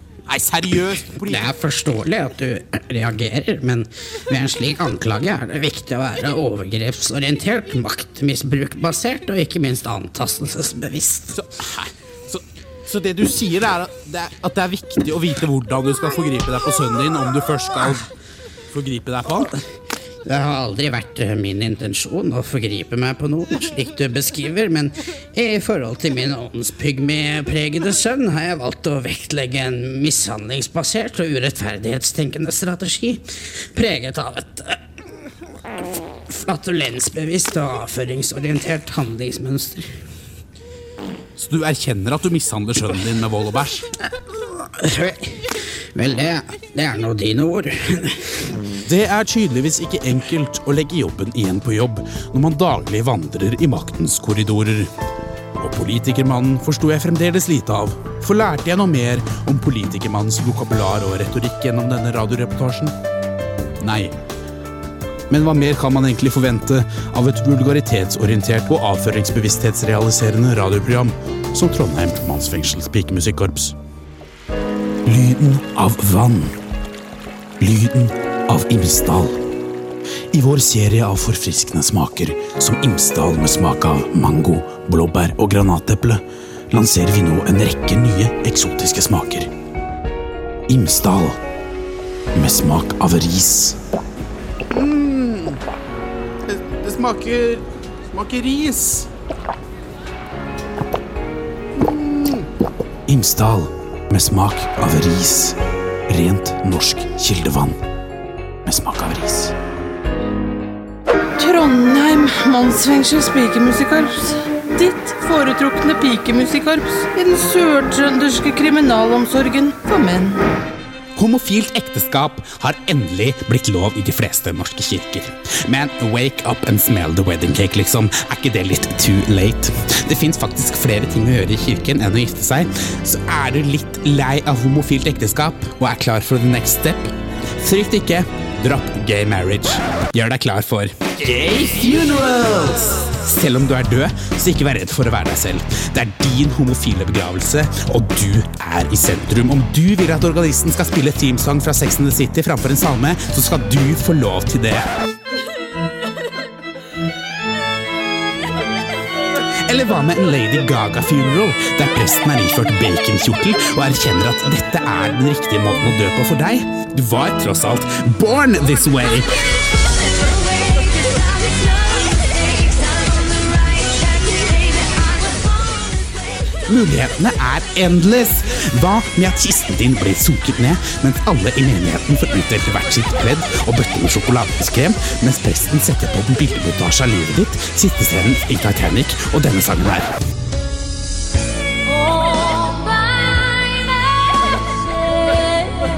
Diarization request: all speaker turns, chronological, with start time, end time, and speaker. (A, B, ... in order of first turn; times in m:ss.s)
0:00.3-0:01.5 A
0:01.3-0:11.4 B
0:11.3-0:18.1 A
0:18.7-0:19.5 A
0:20.2-0:34.8 B
0:36.3-0:39.9 B
0:41.4-0:43.9 A
0:44.6-0:48.5 B
0:48.8-0:54.9 A
0:55.6-1:03.0 A
1:03.8-1:04.2 A
1:05.3-1:13.8 A
1:15.0-1:16.6 A
1:17.6-1:19.4 A
1:20.3-1:29.5 A
1:30.7-1:31.4 A
1:32.3-1:33.8 A
1:34.7-1:35.6 A
1:36.4-1:39.1 A
1:41.7-1:42.5 A
1:43.1-1:47.8 A
1:48.6-1:49.6 A
1:51.4-2:00.4 C
2:01.2-2:34.9 A
2:39.6-2:49.3 A
2:56.6-3:10.2 A